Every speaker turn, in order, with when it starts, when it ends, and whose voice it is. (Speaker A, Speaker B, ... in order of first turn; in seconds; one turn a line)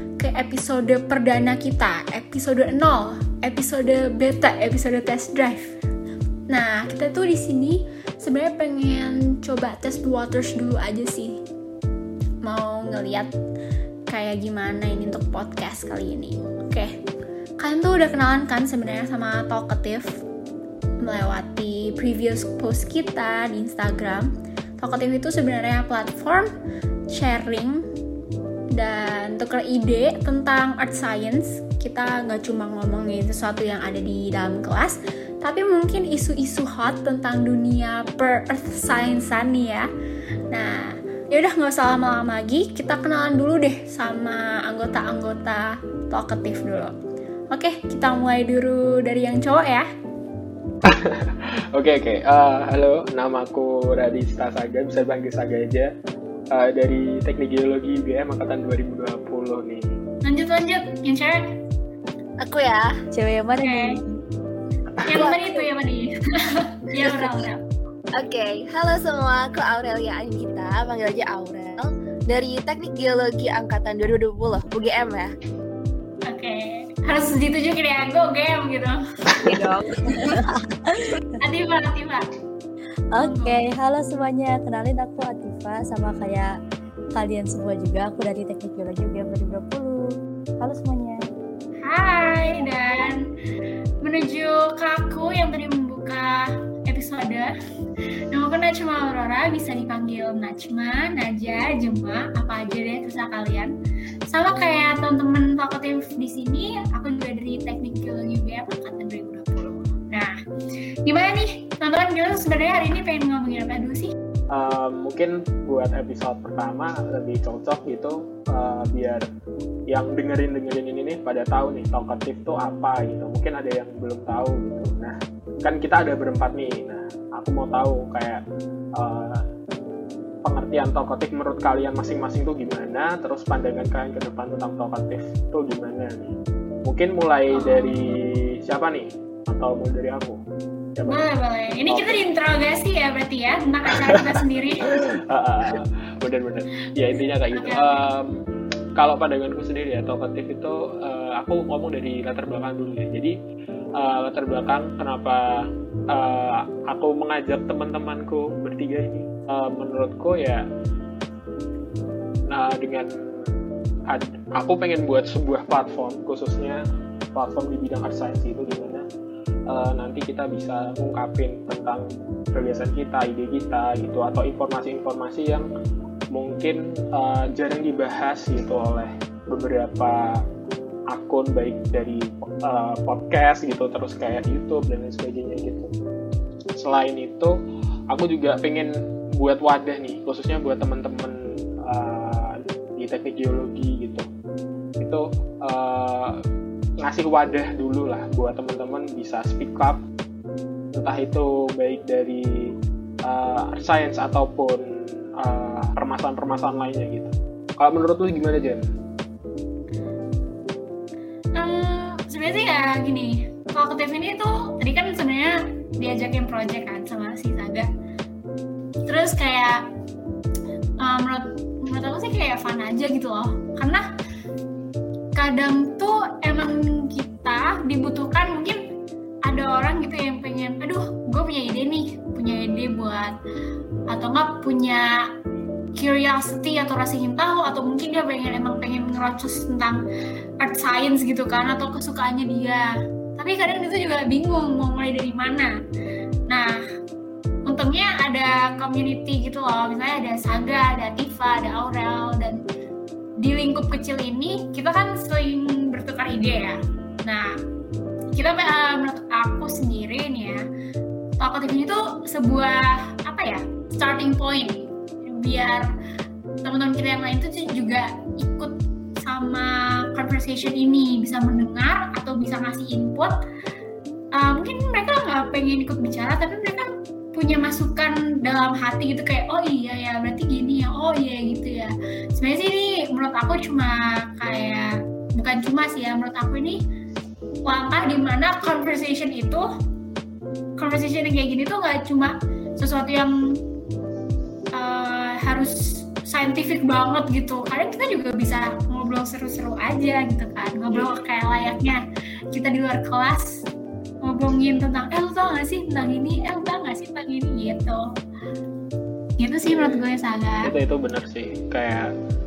Speaker A: 0.2-5.8
Speaker A: 6.5-11.4
Speaker A: 12.4-13.3
Speaker A: 14.1-16.9
Speaker A: 17.6-20.1
Speaker A: 21.0-24.3
Speaker A: 24.8-26.5
Speaker A: 27.1-27.8
Speaker A: 28.8-39.9
Speaker A: 40.5-46.9
Speaker A: 47.5-49.9
Speaker B: 50.9-55.9
Speaker B: 56.5-59.9
Speaker A: 60.2-61.4
Speaker C: 62.4-62.9
Speaker D: 63.1-64.2
Speaker A: 63.6-64.0
Speaker A: 65.0-66.1
Speaker C: 65.2-65.4
Speaker A: 66.8-67.6
Speaker C: 67.0-67.3
Speaker C: 68.2-75.3
Speaker A: 76.3-79.5
Speaker C: 79.5-79.9
Speaker D: 79.5-81.0
Speaker A: 81.4-82.2
Speaker D: 83.1-86.5
Speaker A: 83.2-83.6
Speaker D: 87.2-90.0
Speaker D: 90.6-91.2
Speaker A: 91.8-93.2
Speaker A: 94.0-97.5
Speaker A: 98.3-103.7
Speaker A: 104.3-110.3
Speaker A: 111.1-114.1
Speaker B: 114.5-119.2
Speaker B: 119.9-128.4
Speaker B: 129.0-129.4
Speaker B: 130.4-136.3
Speaker B: 136.9-140.4
Speaker A: 137.5-138.2
Speaker B: 141.0-141.2
Speaker A: 141.1-144.8
Speaker B: 141.9-142.2
Speaker B: 144.9-148.3
Speaker A: 147.5-148.0
Speaker B: 149.0-153.3
Speaker B: 154.0-155.4
Speaker B: 156.1-160.7
Speaker B: 162.5-163.5
Speaker B: 164.1-166.8
Speaker B: 167.3-169.0
Speaker B: 169.7-175.7
Speaker B: 176.3-180.2
Speaker B: 181.1-185.9
Speaker B: 186.8-187.5
Speaker B: 188.1-191.3
Speaker B: 191.9-194.2
Speaker B: 195.0-196.3
Speaker B: 197.0-200.0
Speaker B: 201.0-202.5
Speaker B: 203.3-204.8
Speaker B: 205.4-208.8
Speaker A: 211.6-217.9
Speaker A: 219.1-219.8
Speaker A: 221.0-224.0
Speaker A: 225.4-228.8
Speaker A: 229.5-233.3
Speaker A: 234.1-235.0
Speaker A: 236.0-240.0
Speaker A: 240.6-242.8
Speaker A: 243.4-245.7
Speaker A: 247.7-252.6
Speaker A: 253.4-257.5
Speaker A: 258.4-260.6
Speaker A: 261.4-265.9
Speaker A: 266.6-273.3
Speaker A: 274.4-286.8
Speaker A: 287.7-289.6
Speaker A: 290.8-293.3
Speaker A: 294.8-295.7
Speaker A: 296.3-302.0
Speaker B: 300.9-301.2
Speaker A: 302.5-303.5
Speaker A: 304.2-308.0
Speaker A: 309.4-310.7
Speaker B: 309.7-310.1
Speaker B: 310.6-312.1